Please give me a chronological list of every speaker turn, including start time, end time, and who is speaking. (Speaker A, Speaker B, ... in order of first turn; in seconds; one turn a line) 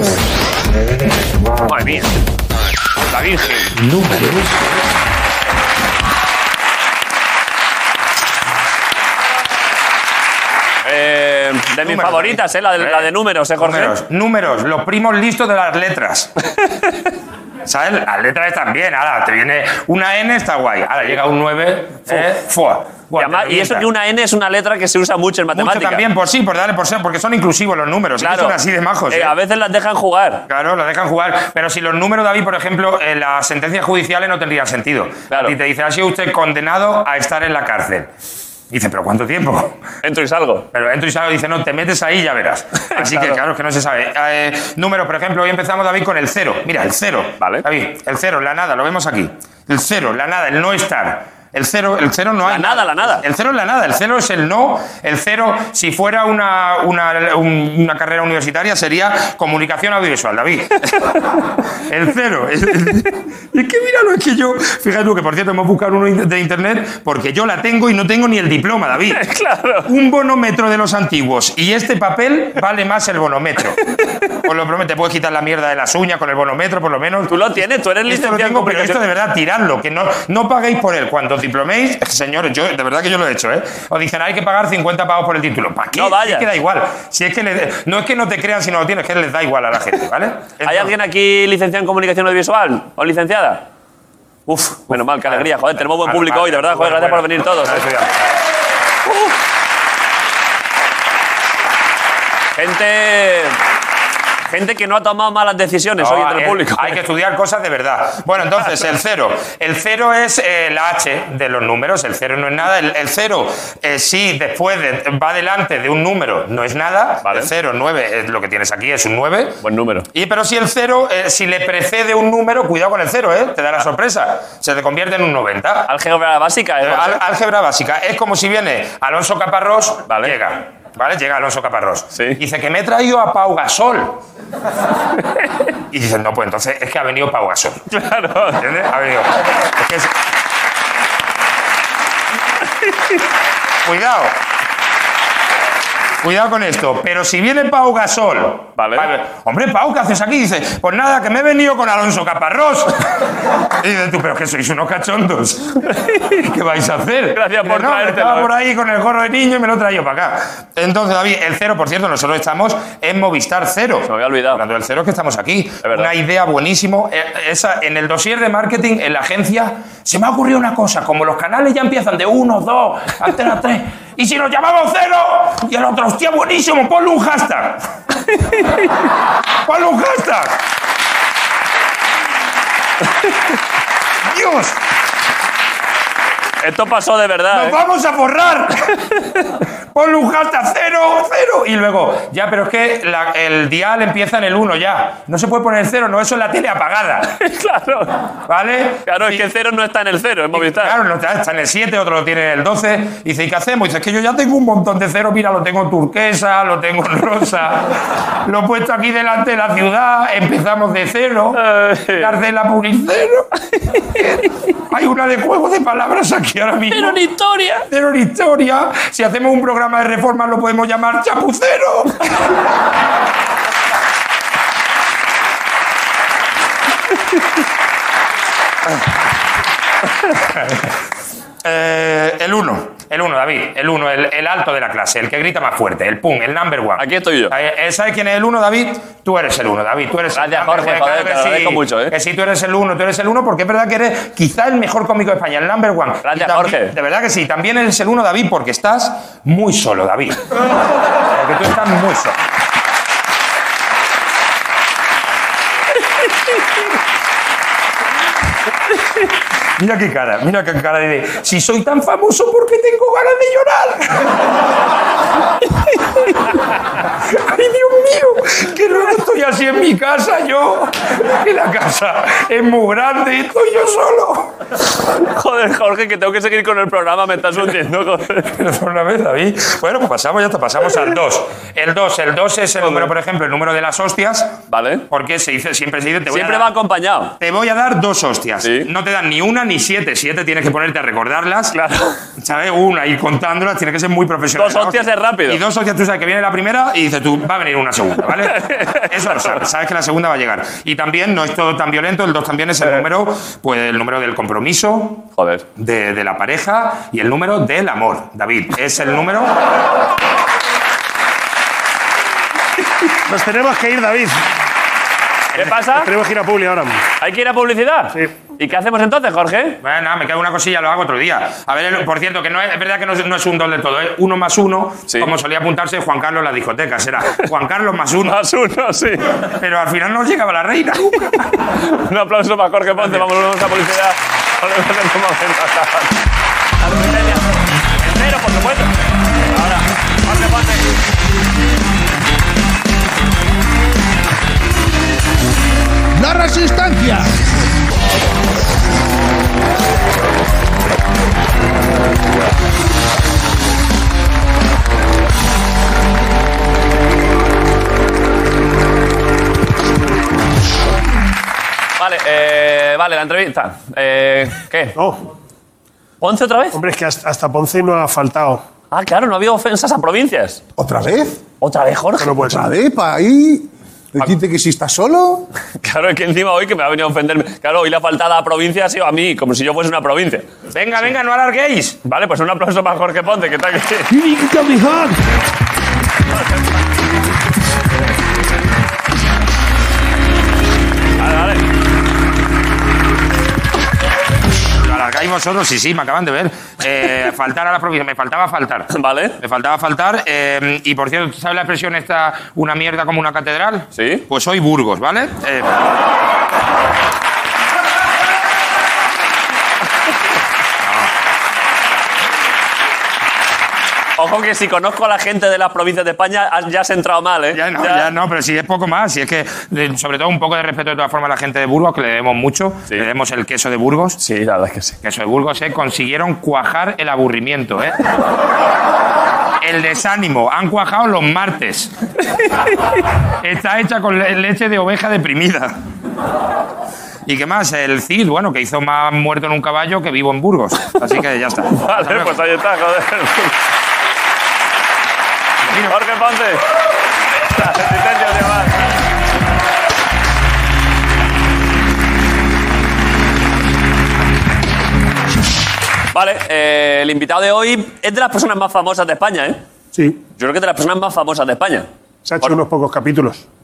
Speaker A: 1.6-2.2
Speaker A: 3.1-3.7
Speaker B: 3.7-4.7
Speaker A: 10.8-13.9
Speaker B: 11.8-16.3
Speaker B: 17.6-23.9
Speaker A: 23.1-26.0
Speaker B: 25.5-29.3
Speaker A: 28.2-28.6
Speaker A: 29.1-30.4
Speaker B: 30.5-38.1
Speaker A: 35.3-35.5
Speaker B: 38.7-39.7
Speaker A: 40.0-40.7
Speaker B: 40.7-61.2
Speaker A: 42.9-43.4
Speaker A: 47.4-47.6
Speaker A: 52.4-53.2
Speaker B: 61.8-69.2
Speaker A: 69.1-69.9
Speaker B: 69.9-73.8
Speaker B: 74.3-77.3
Speaker A: 77.3-79.0
Speaker B: 78.1-90.9
Speaker A: 85.9-86.5
Speaker A: 90.6-93.6
Speaker A: 94.5-97.8
Speaker B: 95.4-98.1
Speaker A: 102.5-103.6
Speaker A: 104.5-107.0
Speaker B: 106.0-119.6
Speaker A: 117.2-117.5
Speaker A: 119.6-120.1
Speaker B: 120.1-125.9
Speaker A: 125.9-127.2
Speaker B: 126.8-134.2
Speaker A: 130.1-130.3
Speaker A: 132.1-132.4
Speaker B: 135.9-137.9
Speaker A: 137.9-138.6
Speaker B: 138.6-140.1
Speaker B: 143.8-144.4
Speaker B: 146.2-177.9
Speaker A: 148.8-149.1
Speaker A: 156.0-156.2
Speaker A: 157.3-158.5
Speaker A: 164.1-164.6
Speaker A: 165.8-166.1
Speaker B: 179.6-180.6
Speaker B: 184.2-184.8
Speaker A: 186.6-187.8
Speaker B: 187.5-189.2
Speaker B: 189.9-197.4
Speaker A: 197.3-198.2
Speaker B: 198.5-199.5
Speaker A: 199.1-200.9
Speaker B: 200.5-211.6
Speaker A: 211.5-212.3
Speaker B: 212.2-213.5
Speaker B: 214.2-217.2
Speaker A: 216.9-217.9
Speaker B: 217.9-222.3
Speaker B: 230.6-230.8
Speaker B: 231.6-250.5
Speaker A: 237.0-237.5
Speaker A: 240.3-242.1
Speaker A: 246.2-246.9
Speaker B: 251.3-252.4
Speaker B: 259.8-264.4
Speaker B: 267.2-274.5
Speaker A: 275.2-278.5
Speaker B: 278.4-284.6
Speaker A: 282.8-283.1
Speaker A: 284.7-285.1
Speaker B: 285.1-286.7
Speaker A: 286.3-287.3
Speaker B: 287.4-291.7
Speaker A: 288.6-288.9
Speaker A: 291.7-292.2
Speaker B: 292.4-305.2
Speaker A: 294.6-295.6
Speaker A: 298.4-299.6
Speaker A: 305.4-305.6
Speaker B: 305.8-309.5
Speaker C: 313.2-314.4
Speaker A: 315.6-316.1
Speaker C: 315.9-317.0
Speaker A: 317.2-319.8
Speaker B: 319.8-328.4
Speaker A: 328.2-329.4
Speaker B: 329.4-331.6
Speaker A: 331.4-336.2
Speaker A: 336.8-338.9
Speaker A: 339.5-340.9
Speaker D: 346.2-347.3
Speaker A: 362.0-364.9
Speaker A: 366.2-366.8
Speaker C: 366.7-368.6
Speaker A: 368.9-370.6
Speaker E: 370.8-371.4
Speaker A: 371.6-372.4
Speaker C: 372.2-372.6
Speaker E: 372.4-375.5
Speaker A: 375.8-380.5
Speaker B: 380.7-382.0
Speaker A: 382.0-384.1
Speaker D: 384.1-385.2
Speaker A: 391.2-391.6
Speaker B: 394.8-405.7
Speaker A: 398.9-399.4
Speaker A: 403.9-404.3
Speaker B: 410.8-411.1
Speaker A: 414.2-418.1
Speaker B: 417.5-424.2
Speaker A: 424.2-425.0
Speaker B: 425.0-428.0
Speaker B: 429.6-431.9
Speaker B: 433.4-435.7
Speaker B: 437.2-442.4
Speaker A: 441.7-443.5
Speaker B: 445.7-445.9
Speaker A: 445.9-446.6
Speaker A: 447.4-448.8
Speaker A: 456.1-459.6
Speaker A: 460.4-461.9
Speaker C: 462.2-463.4